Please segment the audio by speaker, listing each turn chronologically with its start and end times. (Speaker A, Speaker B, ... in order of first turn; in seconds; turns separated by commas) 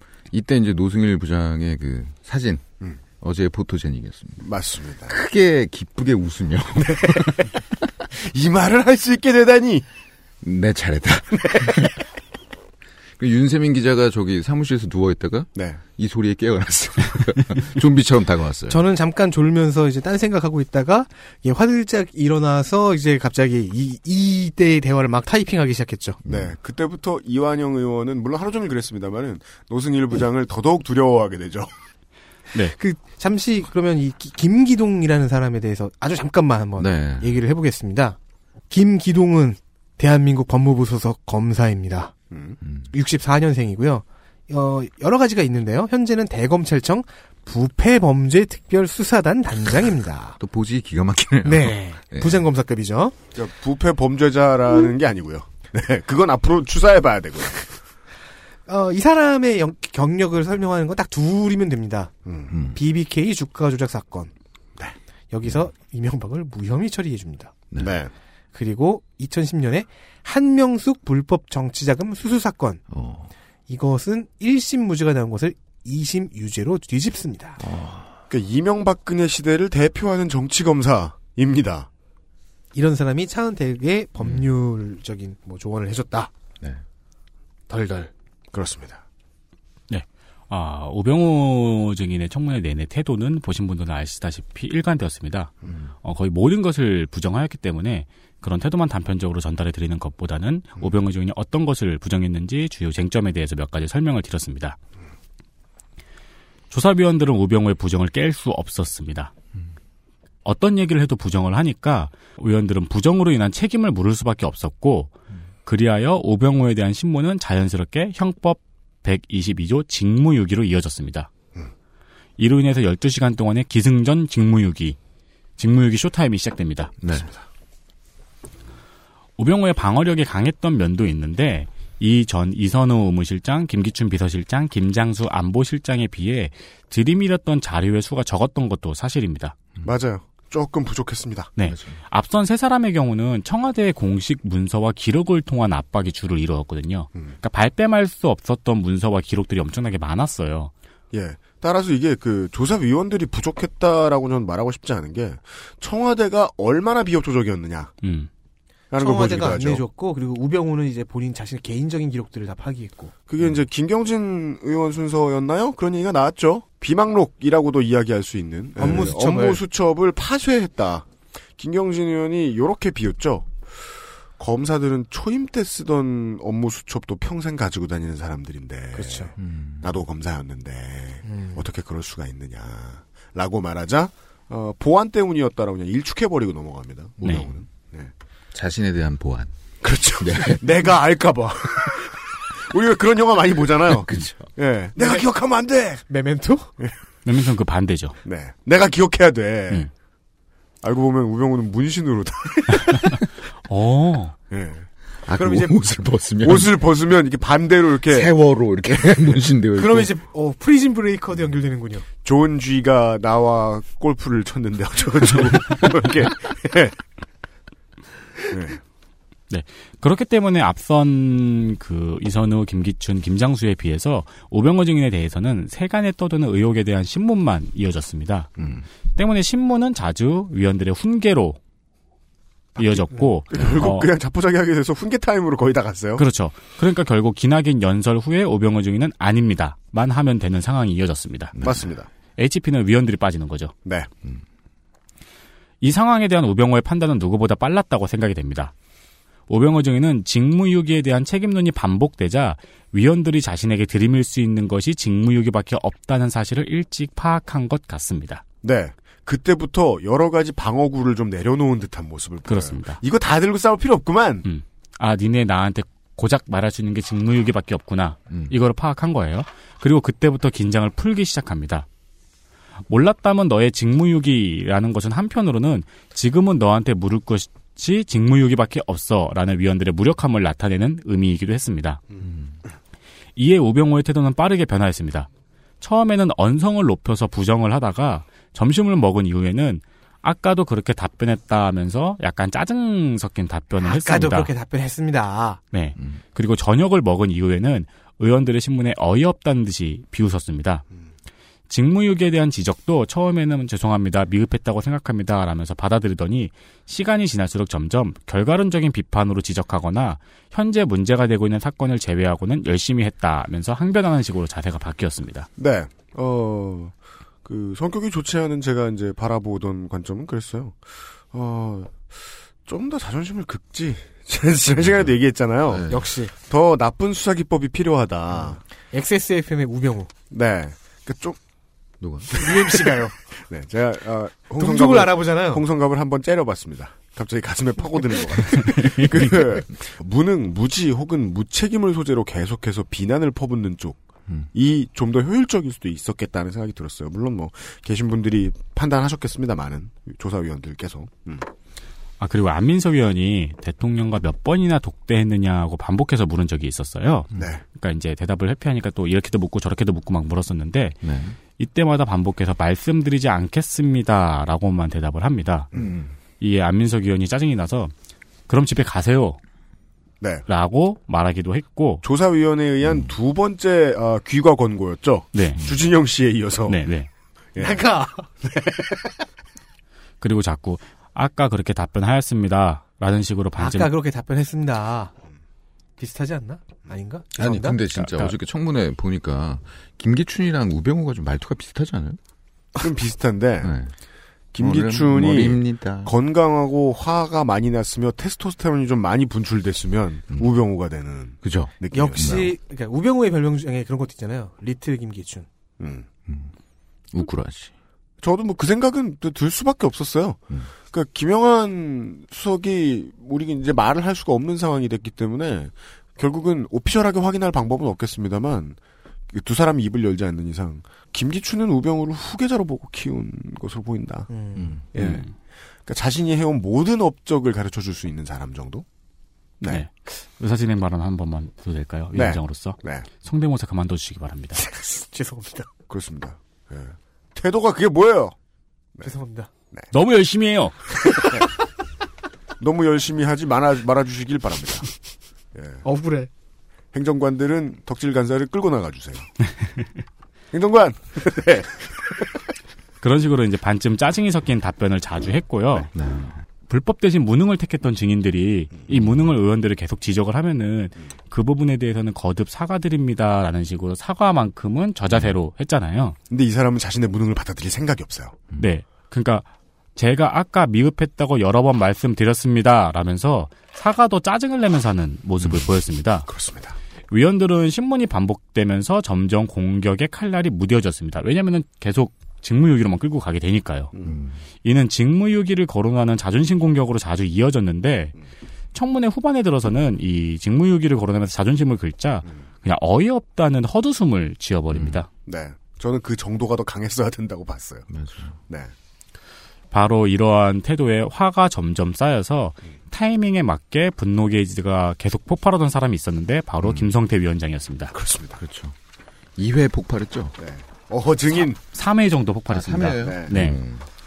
Speaker A: 0.3-2.6, Speaker A: 3.2-4.5, Speaker B: 4.4-5.2, Speaker A: 5.1-7.5, Speaker B: 6.8-7.5, Speaker B: 8.1-9.8, Speaker A: 10.4-11.9, Speaker B: 11.4-11.9, Speaker A: 13.2-18.8, Speaker C: 18.7-26.2, Speaker A: 26.2-26.6, Speaker B: 26.3-31.7, Speaker C: 32.8-38.2, Speaker A: 36.8-37.3, Speaker C: 38.7-42.1, Speaker B: 42.3-42.6, Speaker A: 42.6-42.9, Speaker C: 42.9-50.4, Speaker A: 50.4-52.5, Speaker C: 51.5-53.1, Speaker B: 53.4-57.7, Speaker C: 58.7-62.1, Speaker B: 62.3-62.5, Speaker A: 62.5-62.8, Speaker C: 62.8-64.3, Speaker C: 65.3-67.5, Speaker B: 67.8-68.1, Speaker C: 68.5-72.8, Speaker A: 72.9-73.3, Speaker C: 73.7-77.6, Speaker A: 77.6-78.1, Speaker B: 78.3-81.9, Speaker C: 82.7-86.3, Speaker A: 84.2-84.5, Speaker C: 87.7-88.1, Speaker B: 88.5-89.0, Speaker D: 89.9-95.5, Speaker D: 96.0-104.8, Speaker D: 106.7-109.3, Speaker D: 110.5-115.1, Speaker D: 115.7-121.3, Speaker D: 122.4-125.0, Speaker D: 125.6-126.9, Speaker A: 127.0-127.3, Speaker D: 129.4-139.6, Speaker B: 139.8-141.5, Speaker D: 141.6-150.7, Speaker A: 141.7-142.0, Speaker B: 151.1-157.9, Speaker D: 158.0-158.3, Speaker B: 158.9-159.8, Speaker C: 159.0-163.1, Speaker B: 163.3-171.1, Speaker C: 168.8-169.6, Speaker B: 171.6-173.6, Speaker B: 174.4-188.1, Speaker C: 178.9-179.3, Speaker A: 179.4-179.8, Speaker C: 181.2-181.6, Speaker D: 187.2-187.5, Speaker A: 188.5-189.5, Speaker B: 189.8-192.2, Speaker A: 190.2-190.9, Speaker B: 192.7-196.0, Speaker A: 193.9-194.5, Speaker C: 195.0-195.2, Speaker C: 196.1-196.7, Speaker D: 197.2-198.2, Speaker B: 198.2-199.9, Speaker B: 200.8-203.2, Speaker D: 203.7-204.3, Speaker B: 204.5-204.9, Speaker A: 205.3-206.8, Speaker C: 205.4-205.8, Speaker B: 206.4-208.3, Speaker A: 208.1-210.1, Speaker C: 209.8-212.1, Speaker B: 212.2-217.0, Speaker B: 218.5-218.8, Speaker D: 219.5-228.5, Speaker A: 228.6-228.8, Speaker D: 229.2-231.6, Speaker D: 232.8-234.1, Speaker B: 233.5-236.2, Speaker D: 236.2-241.6, Speaker A: 241.6-241.9, Speaker B: 241.6-242.1, Speaker D: 242.4-243.7, Speaker D: 245.8-248.7, Speaker D: 249.5-258.4, Speaker B: 258.6-264.4, Speaker D: 262.5-263.0, Speaker D: 264.4-271.9, Speaker D: 272.9-282.0, Speaker D: 283.4-285.3, Speaker D: 285.8-294.5, Speaker C: 293.8-295.6, Speaker D: 295.7-300.9, Speaker D: 301.7-315.5, Speaker B: 315.6-316.9, Speaker B: 317.4-328.6, Speaker A: 324.8-325.1, Speaker A: 325.7-326.0, Speaker C: 325.9-326.3, Speaker C: 328.9-330.1, Speaker B: 330.3-331.4, Speaker A: 332.0-332.3, Speaker C: 332.4-333.1, Speaker B: 332.4-344.0, Speaker C: 334.6-335.6, Speaker B: 344.5-351.5, Speaker D: 352.2-361.0, Speaker B: 357.4-357.6, Speaker A: 361.0-361.4, Speaker D: 361.6-365.7, Speaker A: 365.7-366.1, Speaker D: 366.4-367.9, Speaker D: 368.5-369.4, Speaker D: 370.5-372.0, Speaker B: 372.0-376.8, Speaker D: 375.4-375.6, Speaker D: 376.7-377.1, Speaker C: 377.6-378.3, Speaker B: 378.5-379.0, Speaker D: 380.2-383.9, Speaker C: 383.6-385.1, Speaker C: 386.0-387.8, Speaker A: 387.4-392.2, Speaker D: 388.0-388.4, Speaker B: 392.8-393.8, Speaker A: 393.6-393.9, Speaker B: 394.5-402.5, Speaker A: 394.6-396.1, Speaker A: 401.4-402.5, Speaker C: 401.9-405.5, Speaker B: 405.8-406.1, Speaker A: 406.3-406.5, Speaker A: 407.1-407.7, Speaker B: 408.2-418.8, Speaker B: 419.3-424.3, Speaker C: 424.3-424.8, Speaker A: 424.6-424.8, Speaker B: 424.9-425.2, Speaker D: 425.0-425.3, Speaker B: 425.9-428.9, Speaker D: 429.7-434.6, Speaker B: 432.1-433.1, Speaker C: 434.6-435.7, Speaker B: 435.9-438.3, Speaker C: 439.0-439.5, Speaker D: 439.9-440.9, Speaker B: 442.6-444.9, Speaker B: 445.6-445.8, Speaker C: 445.9-446.3, Speaker B: 446.9-449.3, Speaker B: 450.5-452.3, Speaker D: 453.0-455.9, Speaker A: 455.9-456.4, Speaker D: 456.7-466.2, Speaker A: 458.9-459.3, Speaker A: 465.1-465.4, Speaker B: 466.3-468.4, Speaker D: 468.6-469.4, Speaker D: 470.0-476.3, Speaker A: 475.4-475.7, Speaker B: 476.3-476.8, Speaker D: 477.1-483.9, Speaker A: 484.0-484.4, Speaker D: 484.6-488.1, Speaker D: 488.7-495.1, Speaker A: 494.7-495.0, Speaker B: 495.3-497.9, Speaker A: 497.9-498.4, Speaker D: 499.7-507.9, Speaker B: 507.9-508.4, Speaker A: 508.4-508.8, Speaker A: 509.4-510.4, Speaker B: 510.4-511.6, Speaker D: 511.7-513.6, Speaker A: 512.5-513.8, Speaker B: 513.0-513.3